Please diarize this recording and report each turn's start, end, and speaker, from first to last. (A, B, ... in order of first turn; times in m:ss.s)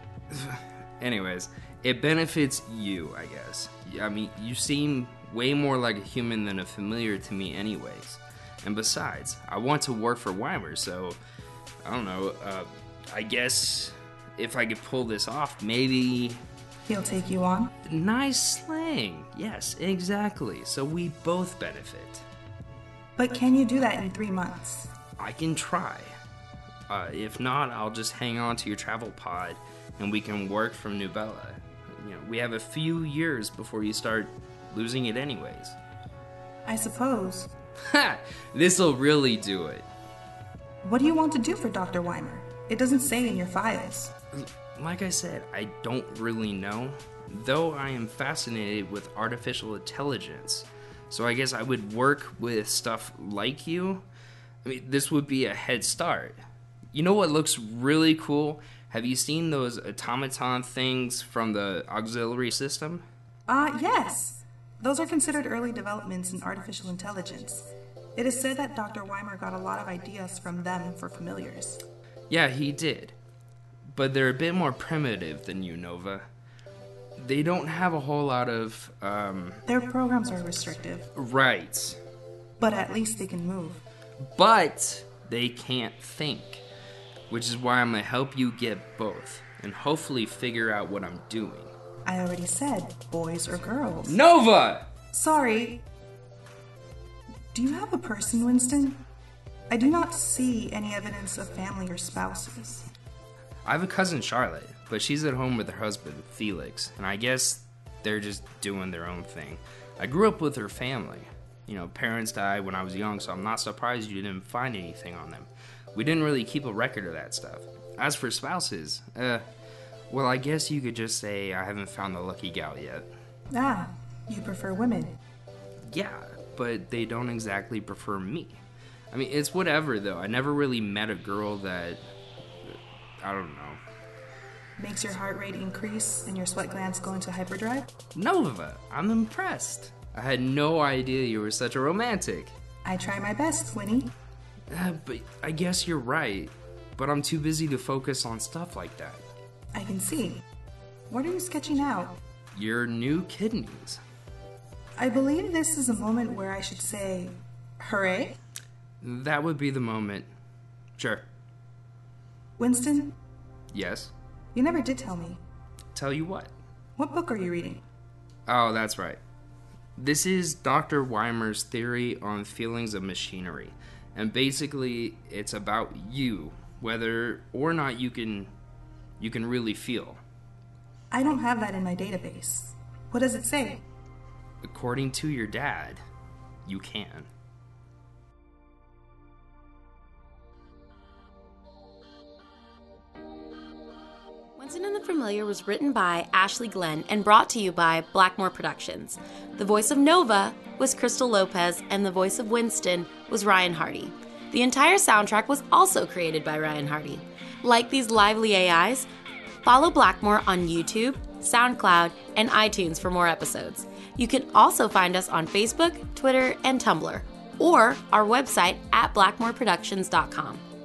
0:00.3-0:11.2 A
0:11.8-0:16.4 A
0:16.9-0:17.7 B
0:17.9-0:22.2 A
0:23.2-0:24.9 B
0:25.2-0:26.1 A
0:26.9-0:35.8 A
0:36.7-0:37.5 B
0:37.8-0:39.8 A
0:40.8-0:44.1 B
0:44.4-0:54.0 A
0:54.6-0:56.4 A
0:56.9-1:03.0 A
1:03.5-1:11.8 B
1:12.3-1:13.2 A
1:13.9-1:16.2 A
1:17.2-1:19.6 A
1:19.7-1:21.1 B
1:21.2-1:22.0 A
1:22.6-1:23.8 B
1:24.2-1:26.6 A
1:27.3-1:31.7 A
1:32.1-1:34.2 B
1:34.1-1:34.9 A
1:35.1-1:35.8 B
1:37.5-1:39.0 B
1:39.7-1:42.9 B
1:43.6-1:59.4 A
2:00.1-2:03.1 A
2:03.5-2:05.2 B
2:05.9-2:08.6 A
2:09.1-2:12.0 A
2:12.6-2:13.8 A
2:14.8-2:17.9 B
2:18.2-2:22.6 A
2:22.8-2:24.1 B
2:24.7-2:29.2 A
2:29.8-2:30.4 B
2:31.1-2:32.2 B
2:32.6-2:34.0 A
2:35.0-2:38.4 B
2:39.0-2:40.3 A
2:41.0-2:41.3 A
2:42.6-2:43.1 B
2:43.7-2:44.1 A
2:44.5-2:45.4 B
2:45.9-2:46.5 A
2:47.0-2:47.8 B
2:48.5-2:49.2 A
2:50.0-2:58.5 A
2:59.2-3:00.2 A
3:01.1-3:03.8 B
3:04.6-3:06.0 A
3:06.7-3:07.3 A
3:14.6-3:29.1 C
3:29.6-3:40.6 C